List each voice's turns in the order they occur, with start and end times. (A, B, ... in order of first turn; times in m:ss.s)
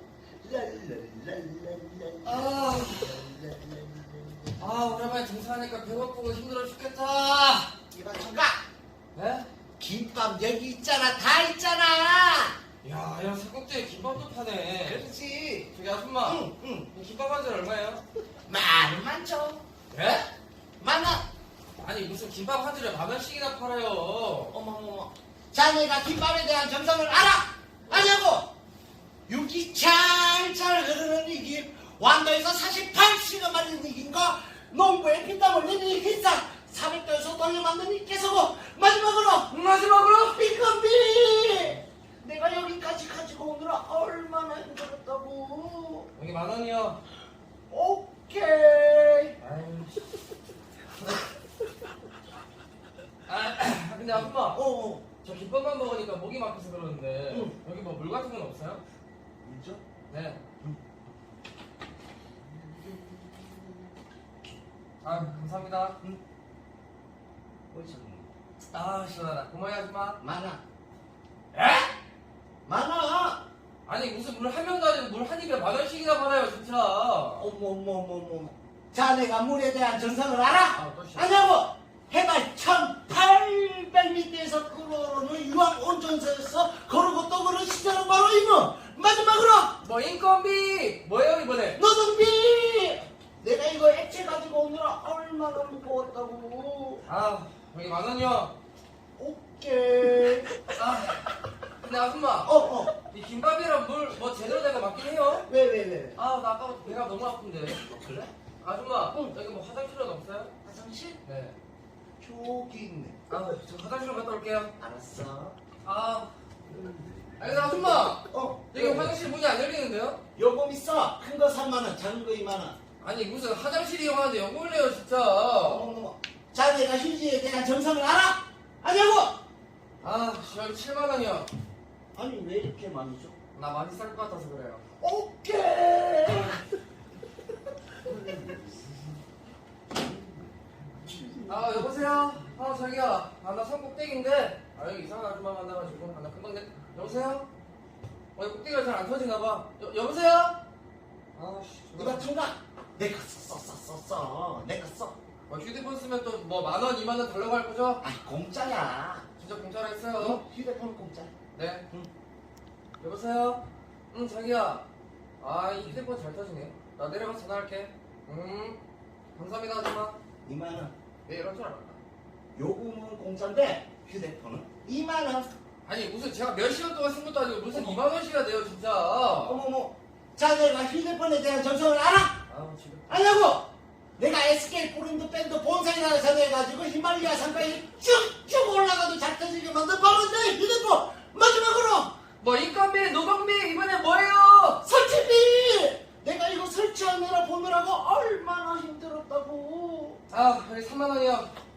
0:00.4-0:04.6 A
0:02.2-0:03.2 B
0:04.6-0:07.7 B
0:07.9-0:08.6 A
0:09.1-0:09.5 B
0:09.8-0:12.6 A
0:12.8-0:15.0 B
0:14.8-0:15.7 A
0:15.7-0:18.0 B
0:16.2-0:16.9 A
0:18.4-0:19.6 A
0:19.9-0:20.3 B
0:20.8-0:21.2 A
0:21.8-0:24.5 B
0:24.5-0:28.5 A
0:29.3-0:39.6 A
0:39.5-0:40.4 B
0:40.3-0:46.1 A
0:46.2-0:47.0 B
0:47.7-0:49.4 A
0:49.4-0:50.1 B
0:53.3-0:54.6 B
0:54.4-0:55.0 A
0:55.2-0:58.8 B
0:57.3-0:57.6 A
0:59.4-0:59.8 A
1:00.1-1:00.4 B
1:02.6-1:03.7 A
1:05.0-1:06.0 B
1:07.7-1:08.3 A
1:08.7-1:10.2 B
1:10.2-1:10.6 A
1:11.5-1:11.9 B
1:12.6-1:13.4 A
1:13.8-1:17.5 B
1:17.4-1:29.7 A
1:20.7-1:21.4 B
1:29.8-1:31.8 B
1:31.7-1:37.0 A
1:37.0-1:38.5 B
1:39.2-1:40.6 A
1:40.7-1:41.2 B
1:41.8-1:45.5 B
1:42.4-1:42.9 A
1:45.5-1:46.2 A
1:46.2-1:47.8 B
1:47.8-1:48.3 A
1:48.6-1:50.5 B
1:49.1-1:49.4 A
1:50.6-1:51.2 A
1:51.2-1:51.6 B
1:52.2-1:53.2 A
1:53.3-1:54.7 B
1:54.8-1:55.6 A
1:55.8-1:56.3 B
1:56.7-1:57.2 A
1:57.4-2:00.2 B
1:58.1-1:59.2 A
2:00.4-2:02.8 A
2:03.0-2:05.9 B
2:05.6-2:09.4 A
2:10.0-2:11.5 B
2:12.1-2:13.3 A
2:13.6-2:14.8 B
2:15.0-2:16.6 A
2:18.1-2:18.6 A
2:21.1-2:21.6 A
2:21.5-2:27.5 B
2:28.4-2:30.6 B
2:31.3-2:32.3 B
2:32.0-2:35.2 A
2:35.5-2:38.0 B
2:38.0-2:39.2 A
2:39.4-2:40.4 B
2:40.2-2:41.3 A
2:41.5-2:41.8 B
2:43.0-2:44.8 B
2:45.4-2:48.8 B
2:49.3-2:50.2 B
2:50.4-2:50.9 A
2:51.3-2:52.0 B
2:52.5-2:55.5 A
2:55.8-2:59.6 B
2:59.4-3:02.4 A
3:02.5-3:03.2 B
3:03.1-3:12.1 A
3:12.4-3:14.8 B
3:14.8-3:20.2 A
3:20.3-3:21.5 B